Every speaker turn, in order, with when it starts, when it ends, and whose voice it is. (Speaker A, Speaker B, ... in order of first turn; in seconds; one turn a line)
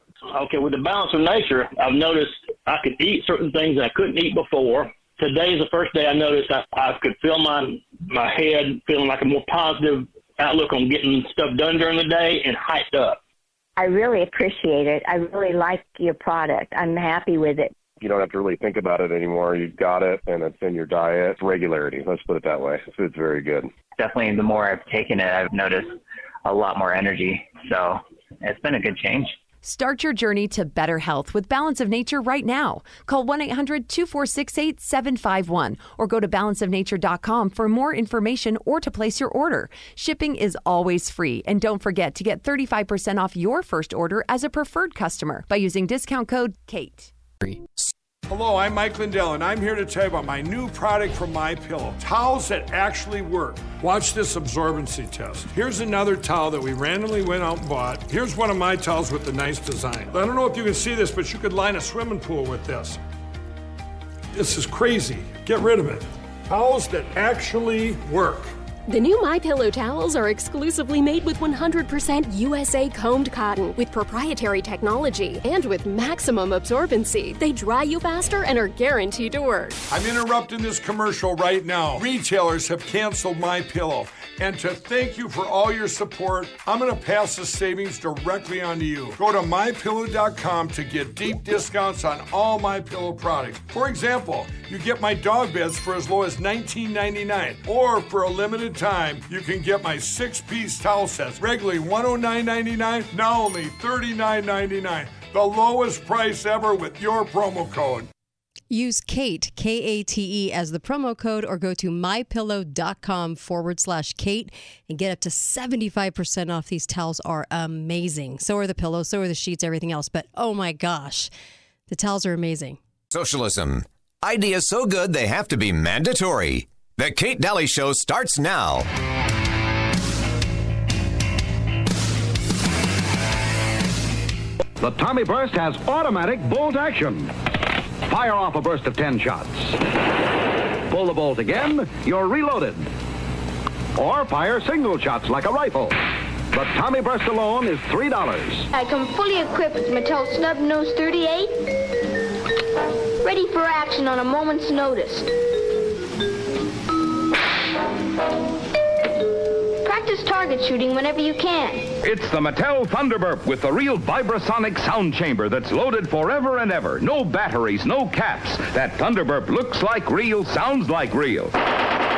Speaker A: 0.3-13.2
Speaker B: 13.8-17.7
Speaker C: 18.0-23.7
Speaker D: 24.0-29.3
Speaker E: 29.6-47.1
Speaker F: 48.3-63.0
Speaker F: 64.3-68.5
Speaker G: 68.9-79.8
Speaker F: 79.9-108.1
Speaker H: 108.7-121.3
Speaker H: 121.9-122.8
Speaker I: 123.1-128.9
Speaker J: 134.8-137.3
Speaker J: 138.0-139.8
Speaker J: 140.9-142.9
Speaker J: 143.9-146.0
Speaker J: 146.5-148.7
Speaker K: 148.7-151.7
Speaker K: 153.2-155.3
Speaker K: 159.8-161.9
Speaker J: 162.0-171.5